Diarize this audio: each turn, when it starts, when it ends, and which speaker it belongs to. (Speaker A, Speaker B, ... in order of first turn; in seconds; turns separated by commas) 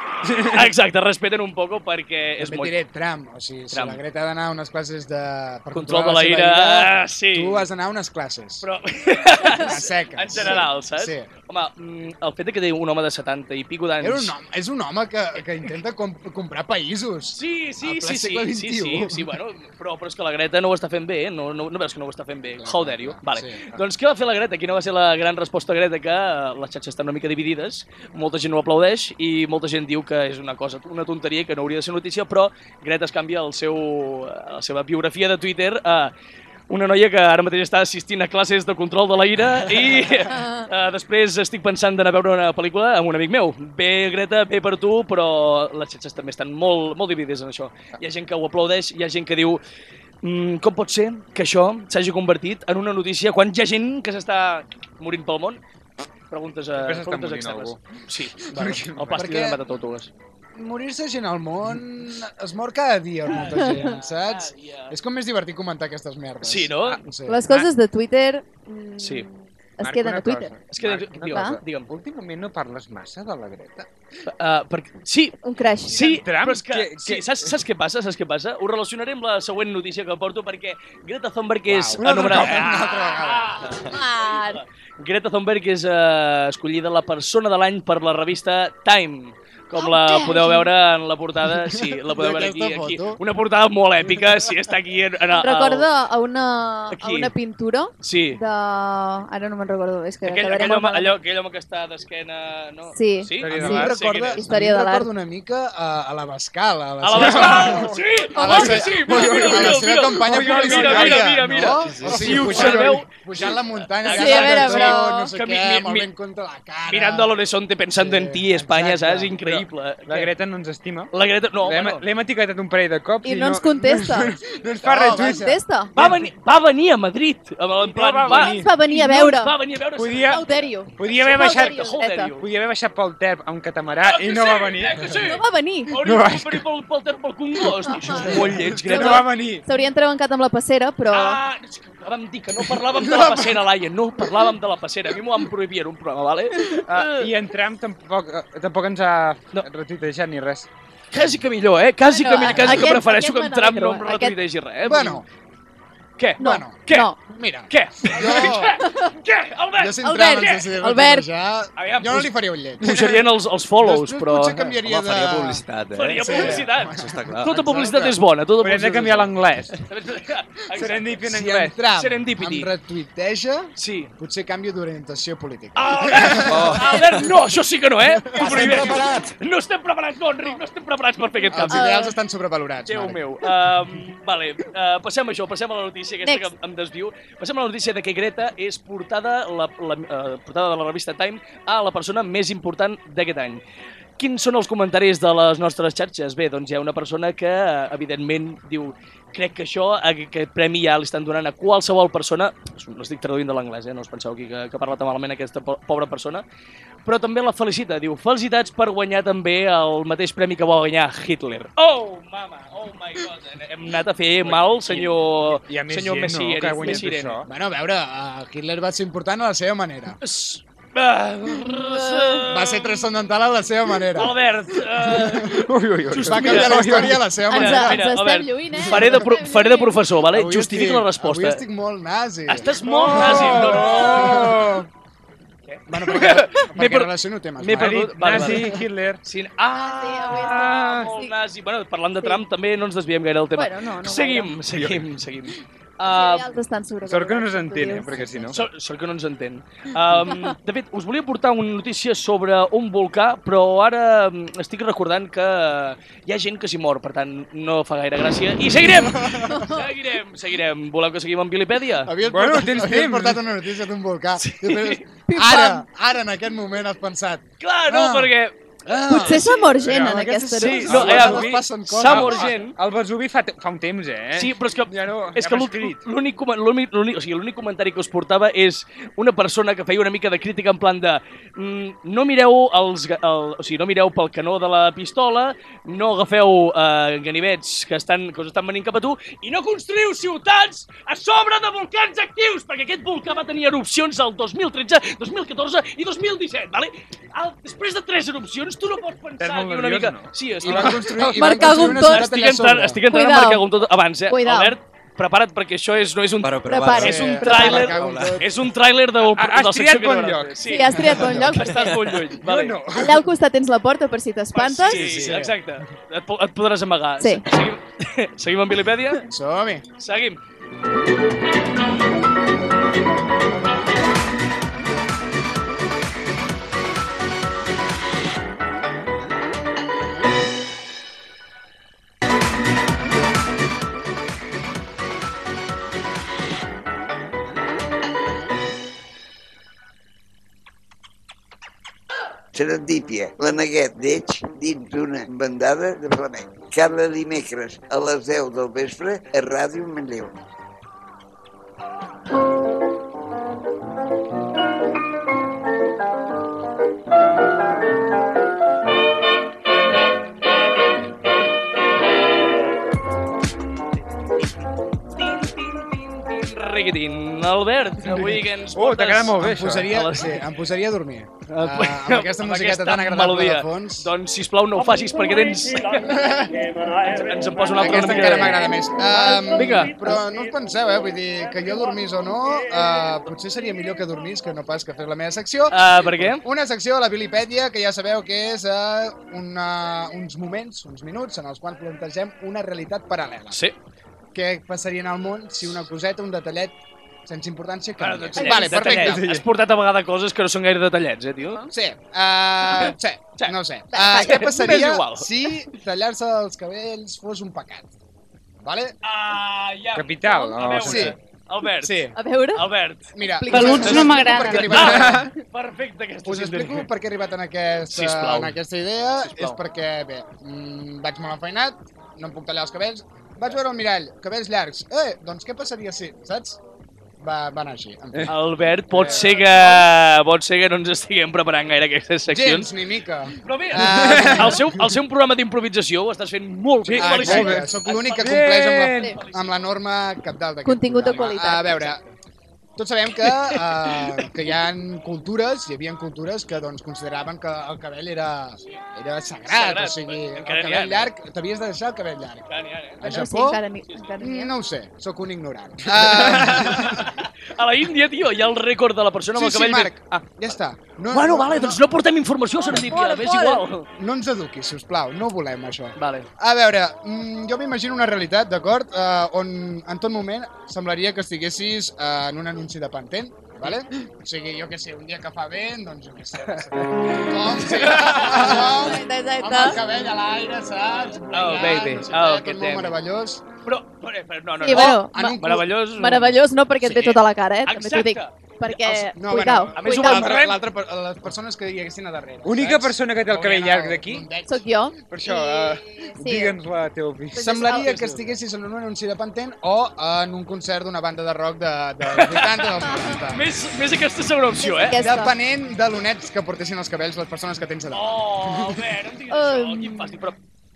Speaker A: 0.2-0.7, Speaker B: 0.4-2.7, Speaker C: 2.4-8.7, Speaker B: 3.7-4.0, Speaker B: 5.7-7.7, Speaker B: 8.6-14.3, Speaker C: 9.5-11.3, Speaker C: 14.0-19.4, Speaker B: 17.3-36.1, Speaker C: 22.6-23.6, Speaker B: 36.7-49.6, Speaker D: 40.3-40.6, Speaker B: 50.2-55.6, Speaker B: 56.3-60.1, Speaker A: 56.8-57.8, Speaker A: 58.5-59.3, Speaker C: 58.6-59.6, Speaker C: 60.5-67.4, Speaker B: 63.4-64.9, Speaker D: 63.5-63.8, Speaker B: 66.4-67.0, Speaker D: 67.3-70.5, Speaker B: 69.0-69.3, Speaker A: 69.8-73.9, Speaker B: 70.7-71.9, Speaker D: 71.3-71.6, Speaker B: 74.3-95.9, Speaker D: 75.4-76.0, Speaker A: 75.9-77.6, Speaker A: 81.7-82.7, Speaker C: 81.7-83.7, Speaker D: 83.9-84.6, Speaker D: 90.2-90.6, Speaker C: 92.0-93.2, Speaker D: 95.4-101.2, Speaker B: 96.9-97.3, Speaker B: 98.0-98.4, Speaker B: 100.2-104.4, Speaker D: 102.9-105.1, Speaker A: 103.4-103.9, Speaker C: 103.5-117.3, Speaker B: 107.0-116.1, Speaker A: 107.1-113.0, Speaker E: 111.9-112.3, Speaker D: 114.1-115.3, Speaker B: 116.9-120.3, Speaker C: 117.9-119.3, Speaker A: 119.4-121.1, Speaker B: 121.1-122.0, Speaker A: 121.6-126.3, Speaker D: 123.2-124.3, Speaker C: 123.9-125.6, Speaker D: 125.1-125.9, Speaker B: 126.0-132.4, Speaker A: 127.8-128.7, Speaker D: 128.3-129.6, Speaker A: 129.9-135.2, Speaker D: 130.3-132.3, Speaker B: 134.0-139.3, Speaker D: 135.3-135.9, Speaker A: 135.9-136.6, Speaker D: 137.9-141.4, Speaker A: 138.1-139.6, Speaker C: 138.3-139.2, Speaker B: 141.1-147.3, Speaker C: 142.8-143.6, Speaker A: 146.9-150.7, Speaker B: 151.1-155.2, Speaker D: 152.1-154.4, Speaker C: 152.5-153.0, Speaker C: 154.8-155.2, Speaker B: 156.2-157.1, Speaker D: 156.4-157.2, Speaker C: 156.4-158.8, Speaker B: 157.7-160.6, Speaker D: 158.8-159.1, Speaker C: 159.8-163.3, Speaker D: 160.0-161.3, Speaker B: 161.8-164.7, Speaker C: 163.8-165.6, Speaker E: 164.8-167.6, Speaker B: 165.9-171.2, Speaker C: 166.2-168.2, Speaker A: 168.6-169.8, Speaker A: 170.7-171.8, Speaker C: 171.2-177.0, Speaker B: 171.9-172.7, Speaker B: 173.8-174.1, Speaker B: 175.8-181.9, Speaker E: 176.5-177.1, Speaker C: 178.1-179.3, Speaker A: 178.4-178.9, Speaker D: 181.4-182.2, Speaker C: 181.5-183.2, Speaker B: 182.9-193.6, Speaker D: 186.2-186.5, Speaker B: 194.2-206.4, Speaker B: 207.1-217.4, Speaker A: 214.4-217.5, Speaker C: 216.9-220.2, Speaker B: 220.2-223.0, Speaker D: 221.7-222.4, Speaker C: 222.5-224.4, Speaker B: 224.1-231.6, Speaker C: 225.0-225.6, Speaker A: 225.5-227.3, Speaker C: 226.1-228.1, Speaker D: 227.5-230.0, Speaker C: 228.7-229.3, Speaker C: 230.3-234.9, Speaker B: 232.5-234.5, Speaker A: 232.8-234.9, Speaker B: 235.7-238.7, Speaker C: 235.9-238.7, Speaker A: 237.7-239.2, Speaker B: 239.2-246.5, Speaker D: 239.7-241.3, Speaker A: 240.5-241.1, Speaker D: 243.6-244.5, Speaker A: 244.8-245.1, Speaker D: 246.1-248.3, Speaker A: 247.1-248.6, Speaker C: 248.1-248.5, Speaker B: 248.5-262.1, Speaker C: 258.8-259.7, Speaker D: 259.5-259.9, Speaker C: 262.0-268.3, Speaker A: 262.2-263.4, Speaker B: 264.4-265.0, Speaker D: 265.3-265.9, Speaker B: 267.6-268.6, Speaker C: 268.9-272.5, Speaker D: 269.1-270.9, Speaker B: 269.1-269.7, Speaker A: 269.8-276.1, Speaker B: 270.6-272.8, Speaker B: 274.4-312.8, Speaker A: 299.4-301.9, Speaker C: 300.6-303.0, Speaker D: 301.3-302.3, Speaker D: 303.1-303.7, Speaker D: 304.3-304.8, Speaker E: 306.4-308.4, Speaker D: 306.6-308.0, Speaker C: 307.0-308.5, Speaker A: 309.2-310.6, Speaker D: 310.7-311.9, Speaker A: 311.1-311.5, Speaker A: 312.4-313.2, Speaker D: 312.9-315.1, Speaker B: 314.5-319.2, Speaker C: 314.9-315.6, Speaker C: 319.3-319.9, Speaker B: 320.0-320.4, Speaker F: 342.5-350.3, Speaker B: 365.1-370.4, Speaker A: 368.1-369.9, Speaker C: 369.4-374.1, Speaker B: 371.5-376.4, Speaker C: 376.1-376.6, Speaker B: 377.0-378.8, Speaker C: 377.7-393.6, Speaker B: 379.4-380.1, Speaker B: 385.7-386.4, Speaker C: 394.3-399.4, Speaker B: 398.0-401.6, Speaker D: 398.4-399.2, Speaker D: 401.4-401.7, Speaker C: 401.7-407.9, Speaker B: 402.7-405.3, Speaker D: 403.9-404.6, Speaker C: 408.6-409.0, Speaker B: 409.0-416.9, Speaker A: 409.9-411.1, Speaker C: 410.8-411.2, Speaker C: 411.8-412.2, Speaker D: 412.2-412.6, Speaker C: 413.1-415.3, Speaker D: 413.2-414.6, Speaker A: 413.6-415.3, Speaker C: 416.2-426.6, Speaker B: 417.9-418.6, Speaker B: 419.3-419.6, Speaker C: 427.2-429.9, Speaker B: 428.3-432.7, Speaker C: 432.3-434.8, Speaker B: 433.4-439.6, Speaker A: 433.8-434.6, Speaker A: 436.8-439.1, Speaker C: 436.9-442.0, Speaker D: 440.6-441.9, Speaker B: 441.1-441.9, Speaker C: 442.8-452.5, Speaker B: 443.3-444.2, Speaker B: 449.5-451.1, Speaker B: 452.5-453.0, Speaker C: 453.0-453.6, Speaker D: 453.0-454.5, Speaker C: 454.2-457.1, Speaker B: 456.0-460.0, Speaker C: 459.4-461.8, Speaker B: 461.1-463.9, Speaker D: 462.8-463.6, Speaker C: 464.0-483.4, Speaker B: 466.0-466.3, Speaker B: 477.5-478.6, Speaker D: 478.2-479.8, Speaker B: 481.3-483.0, Speaker B: 483.6-486.4, Speaker D: 484.6-485.4, Speaker C: 484.6-485.7, Speaker D: 486.0-490.3, Speaker C: 486.8-487.2, Speaker B: 487.6-489.1, Speaker C: 489.2-494.7, Speaker B: 489.7-490.4, Speaker A: 490.1-490.6, Speaker A: 492.4-494.3, Speaker D: 494.4-496.6, Speaker A: 495.1-497.7, Speaker D: 497.3-497.9, Speaker C: 497.4-503.4, Speaker B: 497.8-498.2, Speaker B: 502.1-505.0, Speaker D: 504.6-505.3, Speaker C: 505.0-508.8, Speaker B: 507.9-510.4, Speaker D: 509.3-510.2